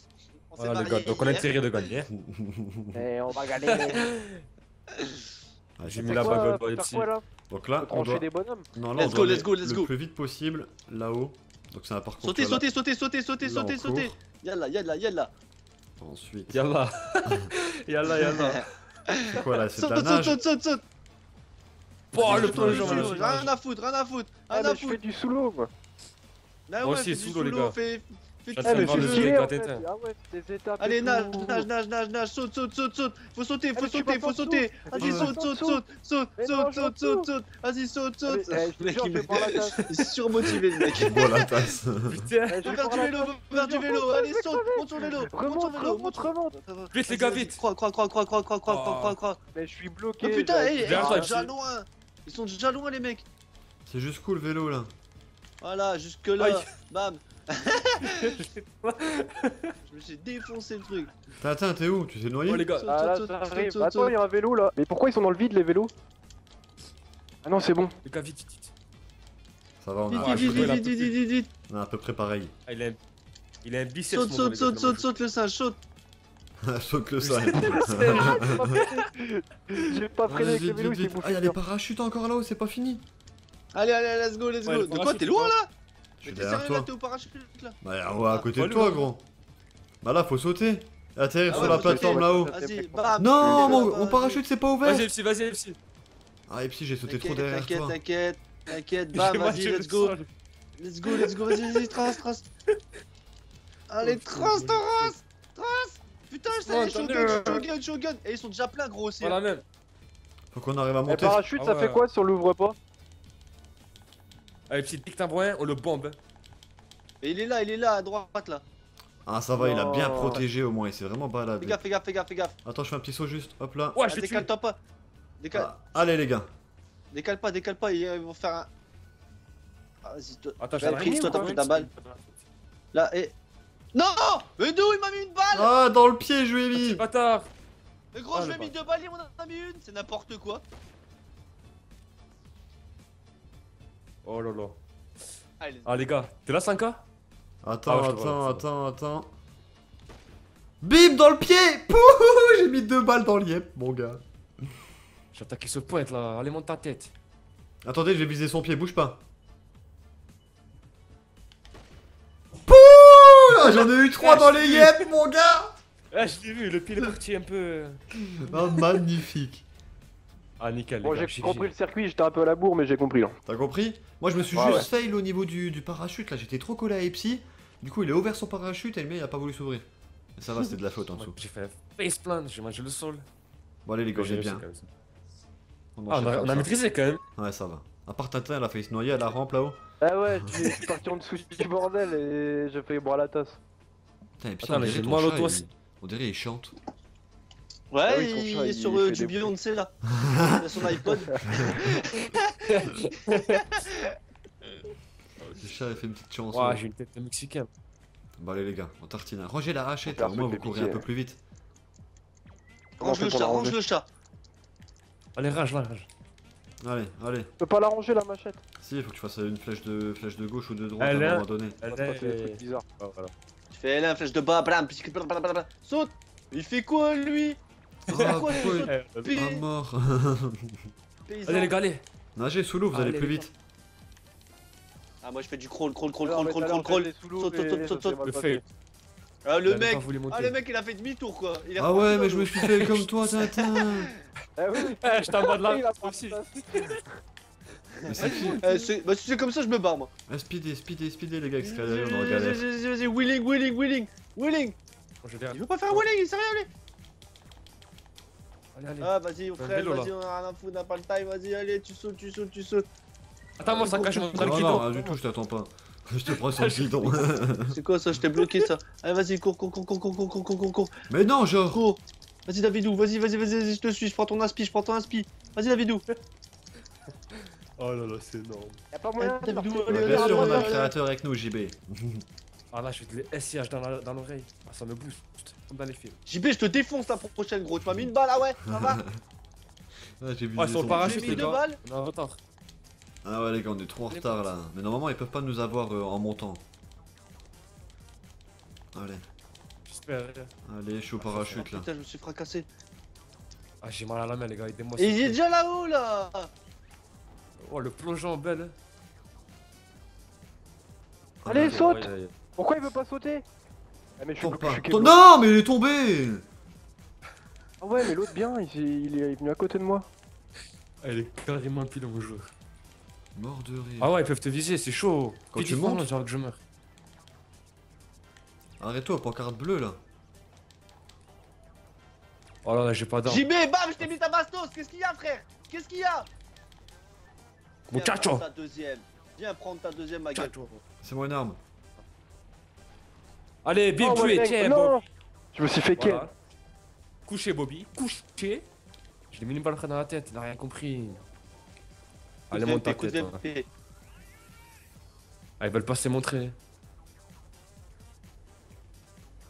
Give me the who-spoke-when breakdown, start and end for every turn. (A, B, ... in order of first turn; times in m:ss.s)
0:00.5-0:01.6 A
0:00.6-0:02.1 B
0:02.1-0:03.0 C
0:02.9-0:04.1 D
0:03.7-0:04.4 B
0:04.9-0:05.2 A
0:05.8-0:06.5 C
0:05.8-0:07.1 B
0:06.0-0:07.2 D
0:07.5-0:12.6 C
0:07.8-0:08.7 D
0:09.0-0:09.9 A
0:12.2-0:15.3 A
0:13.4-0:14.2 C
0:16.0-0:16.6 C
0:16.5-0:18.7 B
0:17.2-0:17.5 C
0:18.2-0:20.8 A
0:19.3-0:20.4 C
0:22.1-0:23.5 B
0:22.2-0:23.2 C
0:22.2-0:25.0 A
0:24.5-0:25.7 D
0:26.7-0:29.3 A
0:26.8-0:27.8 B
0:28.5-0:29.8 B
0:28.6-0:31.7 D
0:28.9-0:29.3 C
0:30.8-0:38.7 A
0:33.8-0:35.8 D
0:35.0-0:35.4 C
0:36.4-0:37.3 D
0:38.3-0:39.8 D
0:38.8-0:41.4 B
0:39.4-0:41.5 A
0:40.9-0:42.3 C
0:42.1-0:42.7 B
0:42.5-0:46.5 D
0:42.6-0:49.4 A
0:46.9-0:47.6 B
0:48.6-0:49.2 B
0:49.5-0:51.3 D
0:50.2-0:53.3 A
0:50.8-0:51.5 B
0:53.9-0:54.9 C
0:55.6-0:58.4 A
0:56.4-0:56.7 B
0:58.0-0:59.8 B
0:59.8-1:01.1 A
1:01.4-1:02.7 C
1:02.5-1:02.9 B
1:02.7-1:04.2 A
1:02.9-1:05.9 D
1:07.4-1:08.0 D
1:08.0-1:08.7 B
1:09.8-1:10.8 C
1:10.1-1:11.5 A
1:10.1-1:11.2 B
1:11.7-1:12.5 C
1:12.7-1:13.0 B
1:13.6-1:15.1 B
1:14.1-1:15.8 A
1:16.6-1:18.6 C
1:17.2-1:19.0 B
1:17.7-1:21.6 D
1:20.2-1:23.1 C
1:23.7-1:25.7 A
1:24.6-1:25.5 B
1:26.2-1:26.9 C
1:26.2-1:27.8 A
1:27.8-1:29.2 C
1:28.5-1:29.1 B
1:30.0-1:32.5 C
1:31.5-1:33.9 D
1:31.5-1:34.4 A
1:33.2-1:35.1 C
1:34.8-1:35.8 B
1:36.5-1:38.0 C
1:37.1-1:40.1 A
1:39.1-1:40.3 B
1:40.8-1:42.5 A
1:41.0-1:42.2 B
1:43.9-1:49.4 A
1:44.0-1:45.1 B
1:46.5-1:47.7 B
1:49.2-1:49.6 B
1:50.5-1:51.4 C
1:51.1-1:52.8 D
1:51.6-1:52.0 B
1:54.7-1:56.2 B
1:57.2-1:58.6 A
1:59.2-2:01.8 C
1:59.6-2:00.4 D
2:01.6-2:02.6 A
2:02.6-2:04.0 C
2:04.0-2:04.5 B
2:04.1-2:04.8 A
2:05.4-2:05.7 A
2:05.5-2:06.5 C
2:07.1-2:08.7 A
2:10.0-2:11.9 A
2:10.6-2:12.3 B
2:10.8-2:11.6 D
2:12.9-2:13.3 A
2:13.9-2:15.7 A
2:15.5-2:17.0 C
2:16.7-2:17.5 B
2:18.1-2:20.6 A
2:18.3-2:18.8 B
2:24.2-2:24.8 B
2:25.6-2:26.1 A
2:25.9-2:27.0 B
2:27.6-2:29.3 C
2:27.9-2:28.6 B
2:30.8-2:34.2 C
2:35.3-2:37.1 B
2:37.8-2:39.2 C
2:42.6-2:45.8 C
2:44.2-2:45.1 B
2:46.1-2:48.0 B
2:48.2-2:49.6 C
2:50.6-2:51.7 B
2:51.0-2:53.4 D
2:53.5-3:01.4 C
2:54.5-2:54.8 D
3:01.2-3:03.2 B
3:03.8-3:04.6 C
3:04.2-3:04.9 B
3:06.0-3:06.7 C
3:06.1-3:07.2 B
3:07.4-3:09.8 C
3:10.0-3:13.6 D
3:10.4-3:10.8 C
3:14.4-3:16.8 C
3:14.6-3:15.6 B
3:17.9-3:24.2 A
3:18.1-3:19.6 D
3:20.2-3:20.6 C
3:21.4-3:22.0 C
3:22.6-3:23.7 B
3:25.4-3:25.7 B
3:25.6-3:26.8 C
3:26.5-3:27.7 B
3:28.4-3:31.4 C
3:30.0-3:31.0 D
3:33.0-3:34.1 A
3:33.0-3:33.8 D
3:35.4-3:36.1 B
3:36.8-3:37.5 C
3:37.6-3:38.6 D
3:38.8-3:41.8 C
3:41.0-3:43.3 B
3:41.9-3:42.8 D
3:43.7-3:49.6 A
3:48.0-3:50.9 C
3:48.1-3:49.3 B
3:51.3-3:51.8 A
3:51.5-3:52.0 B
3:52.4-3:53.5 C
3:52.9-3:53.5 B
3:55.2-3:58.2 A
3:56.2-3:58.6 D
3:58.3-3:58.6 B
3:59.4-4:02.7 A
3:59.7-4:00.6 B
4:01.8-4:04.2 C
4:02.6-4:03.1 B
4:03.6-4:04.0 A
4:04.6-4:07.0 D
4:04.8-4:07.0 B
4:08.0-4:08.6 C
4:08.2-4:08.6 B
4:08.2-4:10.1 A
4:10.3-4:12.6 C
4:11.6-4:14.8 A
4:15.2-4:16.1 B
4:15.5-4:16.7 A
4:18.8-4:20.1 B
4:19.0-4:22.8 A
4:23.6-4:25.2 B
4:23.7-4:24.7 A
4:23.7-4:27.8 C
4:26.3-4:27.4 B
4:27.7-4:30.9 A
4:28.3-4:28.7 B
4:31.1-4:31.8 C
4:31.7-4:36.0 A
4:37.3-4:38.8 B
4:38.9-4:40.8 D
4:39.2-4:40.9 A
4:39.9-4:42.2 C
4:42.7-4:46.2 B
4:46.3-4:49.0 A
4:47.8-4:48.1 C
4:48.6-4:49.1 C
4:50.2-4:51.6 C
4:50.6-4:52.4 B
4:50.8-4:51.8 A
4:53.2-4:56.6 C
4:54.1-4:54.4 B
4:58.9-4:59.2 C
4:59.9-5:00.5 B
5:00.6-5:01.9 C
5:01.2-5:01.6 B
5:01.5-5:02.7 A
5:03.8-5:05.4 B
5:05.0-5:06.5 A
5:07.6-5:08.8 B
5:11.4-5:11.8 C
5:11.4-5:13.4 D
5:11.5-5:12.3 B
5:14.2-5:15.2 D
5:14.4-5:16.4 C
5:17.8-5:20.1 D
5:21.0-5:22.5 B
5:23.3-5:24.1 C
5:24.0-5:26.6 B
5:25.5-5:26.1 C
5:28.8-5:30.0 C
5:32.6-5:33.4 B
5:33.2-5:36.3 A
5:37.9-5:38.4 B
5:37.9-5:40.5 A
5:40.3-5:40.8 B
5:41.0-5:41.6 C
5:43.6-5:45.0 B
5:44.0-5:46.3 D
5:46.0-5:46.3 B
5:47.2-5:48.6 B
5:49.3-5:51.2 B
5:52.5-5:53.4 B
5:52.5-5:53.7 A
5:55.6-5:56.5 B